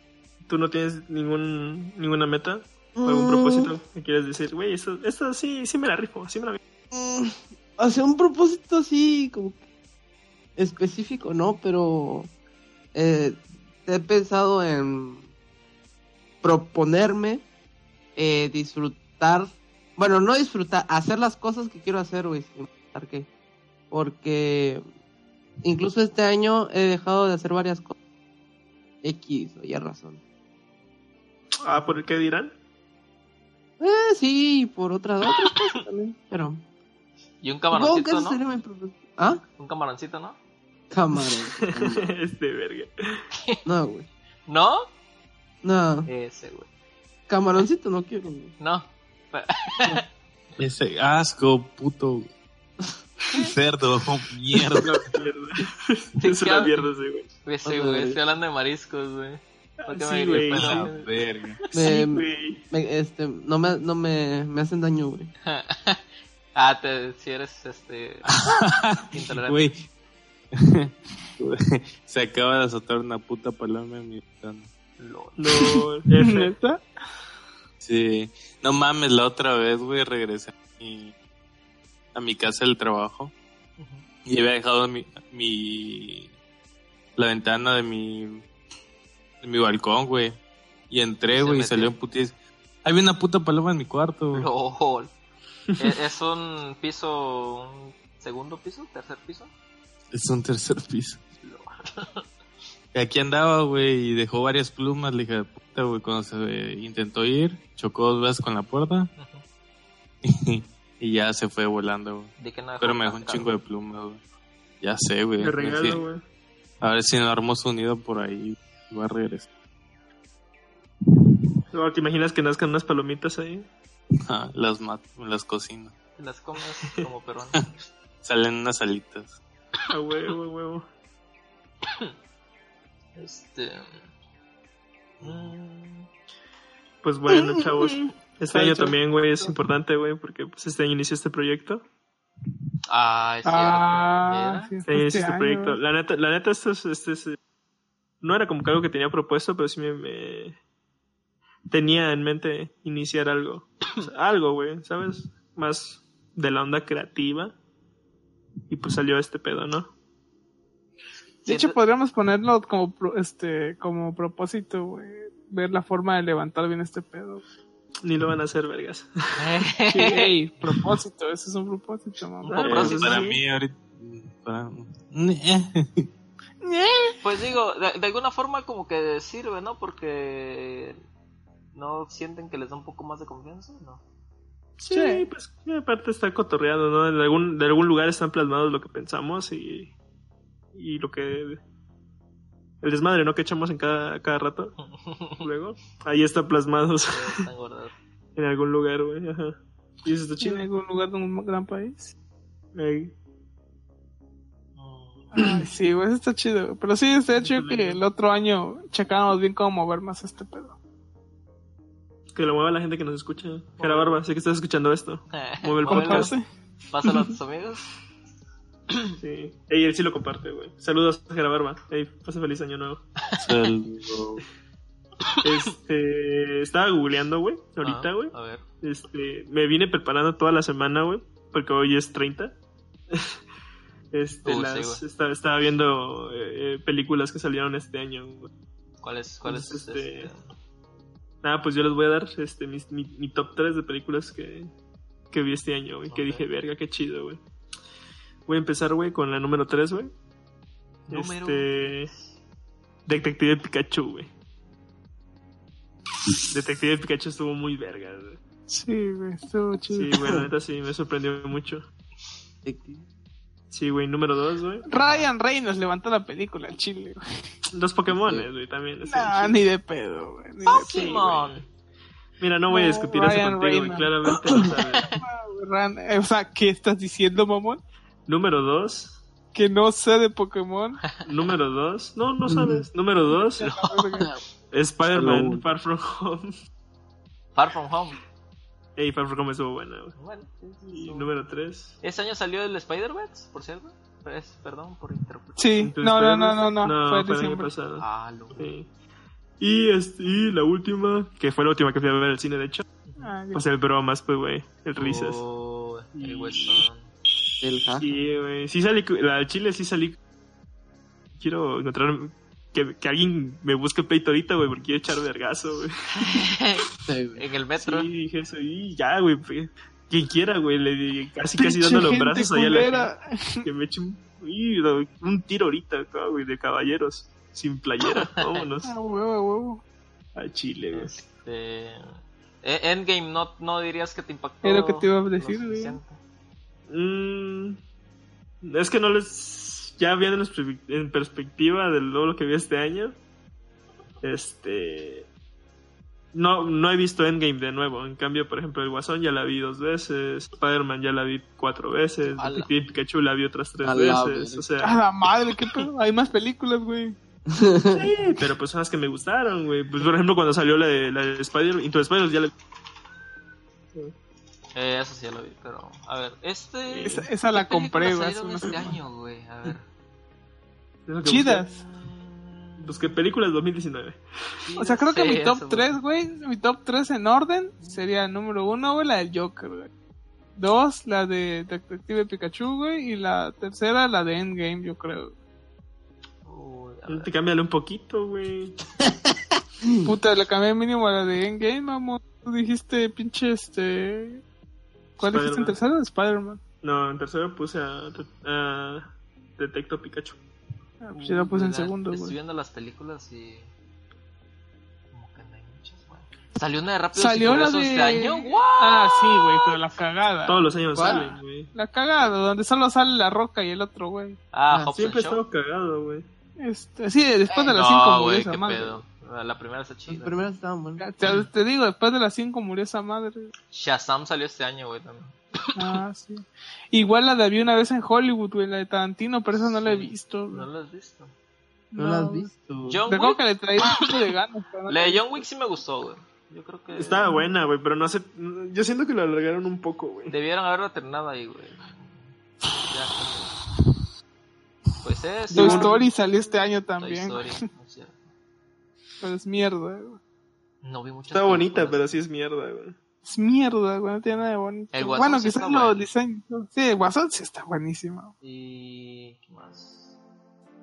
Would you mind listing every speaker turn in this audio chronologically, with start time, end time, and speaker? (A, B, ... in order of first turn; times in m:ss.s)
0:00.5-0:06.6 A
0:03.0-0:03.7 B
0:06.9-0:09.6 B
0:10.6-0:12.3 B
0:12.9-0:15.2 B
0:16.4-0:17.4 B
0:18.2-0:23.3 B
0:23.9-0:24.8 B
0:25.6-0:27.9 B
0:29.0-0:30.2 B
0:31.6-0:32.5 A
0:33.8-0:36.6 B
0:37.4-0:38.4 C
0:37.7-0:39.4 B
0:39.6-0:40.4 C
0:40.9-0:42.1 B
0:41.6-0:43.2 A
0:43.7-0:44.1 B
0:44.5-0:44.9 C
0:45.6-0:46.1 B
0:46.1-0:46.7 C
0:47.3-0:48.5 B
0:48.6-0:50.0 C
0:50.6-0:52.3 D
0:53.3-0:55.1 D
0:54.8-0:57.3 A
0:56.2-0:56.9 C
0:57.4-1:01.7 C
0:57.6-0:58.2 B
0:59.8-1:00.9 A
1:00.3-1:01.6 D
1:01.7-1:05.3 B
1:01.8-1:02.6 A
1:05.4-1:06.0 C
1:06.6-1:08.3 C
1:08.3-1:09.9 D
1:09.1-1:09.7 C
1:10.5-1:14.7 D
1:15.0-1:15.5 C
1:15.4-1:16.5 A
1:16.2-1:16.8 E
1:17.8-1:21.1 D
1:22.2-1:23.3 D
1:23.8-1:24.0 C
1:24.3-1:26.3 D
1:27.2-1:28.4 D
1:29.4-1:30.4 D
1:30.9-1:34.5 D
1:31.3-1:31.9 C
1:34.3-1:35.1 C
1:35.8-1:39.5 C
1:40.1-1:41.2 D
1:41.4-1:42.2 C
1:42.9-1:49.1 D
1:49.2-1:49.4 C
1:50.2-1:54.2 D
1:52.4-1:53.5 C
1:54.8-1:56.0 D
1:55.4-1:56.2 A
1:56.8-1:59.5 D
2:01.7-2:03.7 A
2:04.2-2:05.9 D
2:06.2-2:07.6 C
2:08.2-2:09.4 D
2:09.9-2:10.8 A
2:13.2-2:14.0 C
2:15.2-2:15.5 D
2:15.2-2:16.1 C
2:17.0-2:21.8 A
2:17.4-2:17.9 E
2:18.5-2:19.5 E
2:22.9-2:24.7 C
2:23.4-2:25.8 E
2:24.9-2:27.4 A
2:28.2-2:30.6 A
2:31.7-2:37.6 A
2:38.7-2:39.9 A
2:41.5-2:41.8 C
2:41.5-2:47.4 E
2:48.0-2:49.5 A
2:49.4-2:50.7 C
2:49.9-2:52.7 E
2:52.4-2:53.3 C
2:52.5-2:53.4 A
2:52.6-2:56.1 D
2:56.6-2:57.2 E
2:57.2-3:01.0 C
3:01.7-3:04.0 C
3:04.8-3:05.3 E
3:04.8-3:09.9 A
3:10.7-3:11.6 A
3:12.8-3:14.8 A
3:14.8-3:15.5 C
3:15.4-3:17.5 A
3:17.1-3:18.0 C
3:18.4-3:20.7 A
3:20.4-3:22.1 E
3:22.8-3:23.1 A
3:24.8-3:25.3 C
3:25.3-3:30.8 E
3:25.4-3:25.6 A
3:27.4-3:28.0 A
3:32.3-3:36.3 A
3:33.8-3:34.2 C
3:35.3-3:36.4 C
3:35.9-3:36.5 E
3:36.9-3:37.9 C
3:39.2-3:43.0 A
3:43.4-3:44.4 D
3:45.4-3:52.6 A
3:47.8-3:48.6 C
3:54.1-3:58.5 A
3:54.4-3:55.0 C
3:59.0-4:00.5 C
3:59.4-4:00.3 A
4:01.4-4:04.7 A
4:05.3-4:07.4 A
4:06.1-4:06.4 C
4:08.5-4:10.1 A
4:11.1-4:12.2 C
4:11.1-4:12.1 A
4:13.1-4:14.3 A
4:16.5-4:18.4 A
4:18.7-4:20.4 E
4:19.9-4:21.9 A
4:22.6-4:23.0 B
4:23.7-4:24.9 A
4:24.9-4:27.2 E
4:25.0-4:25.3 C
4:27.7-4:29.6 A
4:28.1-4:28.5 B
4:29.0-4:31.2 E
4:30.6-4:31.6 C
4:30.9-4:31.6 A
4:32.4-4:35.1 A
4:32.7-4:34.1 E
4:34.9-4:35.2 C
4:35.2-4:37.8 E
4:38.3-4:39.2 A
4:39.6-4:41.0 E
4:41.2-4:43.7 A
4:42.5-4:42.9 B
4:43.5-4:44.3 E
4:43.7-4:44.1 C
4:44.7-4:46.6 A
4:45.1-4:45.6 B
4:47.6-4:48.2 C
4:49.0-4:50.2 A
4:50.2-4:51.3 C
4:50.9-4:52.0 A
4:52.0-4:55.6 C
4:55.6-4:57.7 E
4:55.8-4:58.9 A
4:58.0-4:58.7 C
4:59.6-5:02.8 A
5:03.2-5:03.6 E
5:03.5-5:05.4 A
5:05.0-5:07.1 C
5:06.2-5:06.9 A
5:07.6-5:08.2 B
5:08.0-5:10.2 A
5:11.4-5:16.4 A
5:16.2-5:16.8 C
5:17.1-5:17.4 B
5:17.4-5:18.1 C
5:17.8-5:23.1 A
5:21.6-5:23.7 E
5:23.6-5:28.9 A
5:28.2-5:28.7 C
5:28.8-5:29.8 E
5:30.4-5:31.2 A
5:30.9-5:32.0 C
5:32.6-5:36.2 C
5:34.6-5:36.0 E
5:36.9-5:37.8 A
5:38.6-5:43.2 A
5:44.2-5:45.3 A
5:46.3-5:55.0 A
5:52.4-5:52.7 C
5:53.8-5:54.7 B
5:54.8-5:57.2 E
5:57.5-5:58.1 B
5:58.0-6:02.5 A
6:04.8-6:09.8 C
6:06.9-6:07.3 A
6:07.0-6:08.9 E
6:08.7-6:08.9 A
6:11.1-6:11.6 A
6:11.3-6:11.8 E
6:11.9-6:13.0 C
6:12.8-6:14.2 A
6:14.7-6:16.0 C
6:14.8-6:19.9 E
6:20.6-6:25.3 E
6:26.4-6:27.3 C
6:27.1-6:28.8 A
6:29.8-6:30.1 B
6:30.0-6:34.4 E
6:35.2-6:36.6 E
6:35.2-6:35.8 A
6:36.8-6:40.4 A
6:41.0-6:42.4 E
6:41.3-6:43.7 C
6:45.1-6:49.8 C
6:47.2-6:54.4 E
6:50.5-6:51.7 A
6:51.0-6:51.2 B
6:54.5-6:55.4 C
6:54.9-6:56.3 A
6:56.6-6:59.0 E
6:57.5-7:00.4 C
7:00.1-7:01.0 B
7:01.0-7:03.5 E
7:03.7-7:06.0 C
7:05.8-7:10.7 E
7:09.5-7:11.3 C
7:11.9-7:12.5 E
7:12.0-7:13.0 B
7:12.9-7:14.2 C
7:13.1-7:15.4 E
7:14.9-7:17.4 C
7:17.0-7:20.4 A
7:20.3-7:23.6 C
7:25.0-7:26.1 C
7:25.5-7:26.0 A
7:25.5-7:27.6 E
7:27.0-7:28.2 C
7:29.2-7:30.2 E
7:30.8-7:32.1 C
7:31.3-7:33.0 A
7:33.2-7:38.3 E
7:34.9-7:36.0 C
7:38.4-7:40.1 C